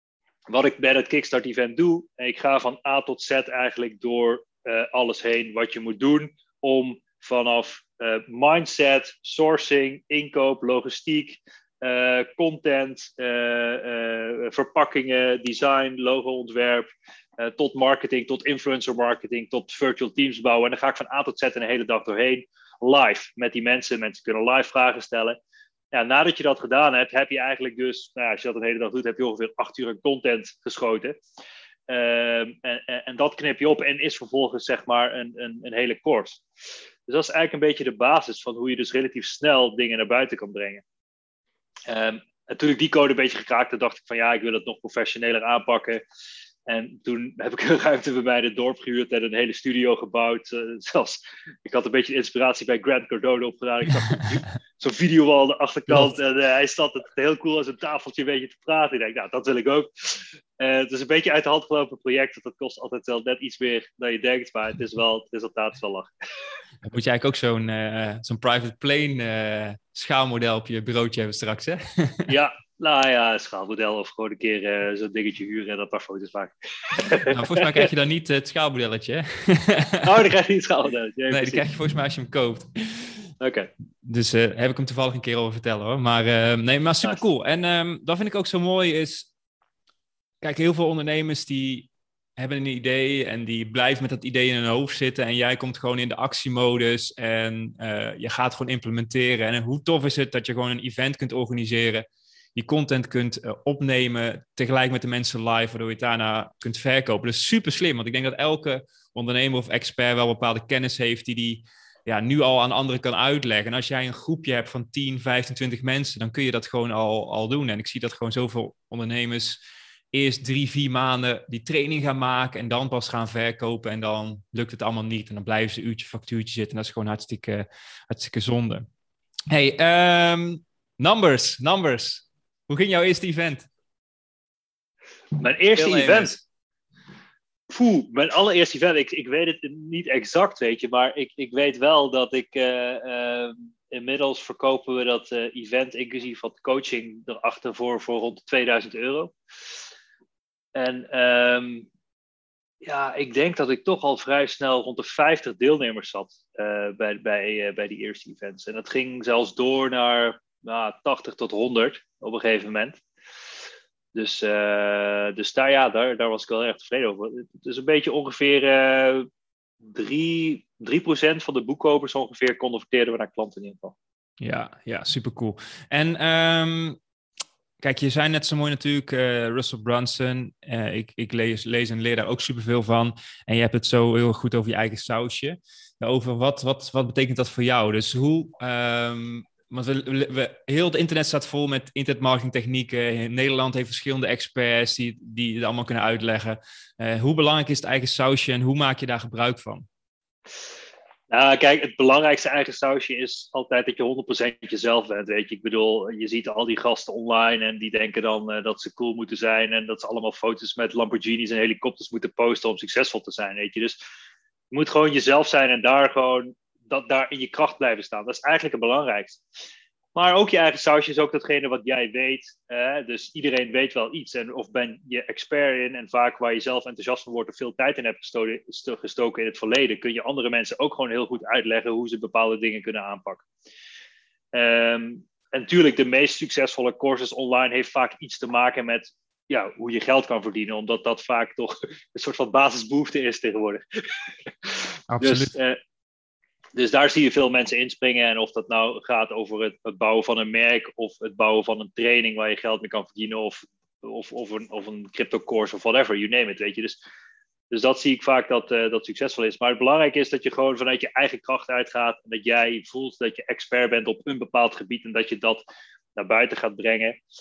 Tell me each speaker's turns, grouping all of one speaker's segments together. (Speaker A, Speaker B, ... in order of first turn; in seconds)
Speaker A: 0.5-16.9, 17.4-25.4, 25.9-31.2, 31.9-36.4, 37.1-40.8, 41.9-46.0, 46.6-66.1, 72.3-77.8, 80.0-81.6, 83.4-83.7, 135.4-136.4, 137.7-149.3, 150.7-151.9, 152.8-163.0, 164.1-169.3, 169.8-173.9, 201.3-214.0, 214.7-219.4, 220.1-233.4, 234.5-245.8, 246.7-257.0, 257.7-265.6, 266.1-267.2
Speaker B: 66.8-72.3, 77.3-80.1, 81.3-83.2, 84.0-89.3, 90.4-119.6, 120.1-128.8, 129.5-133.7, 135.8-136.4, 174.4-177.0, 177.8-199.9, 245.1-245.5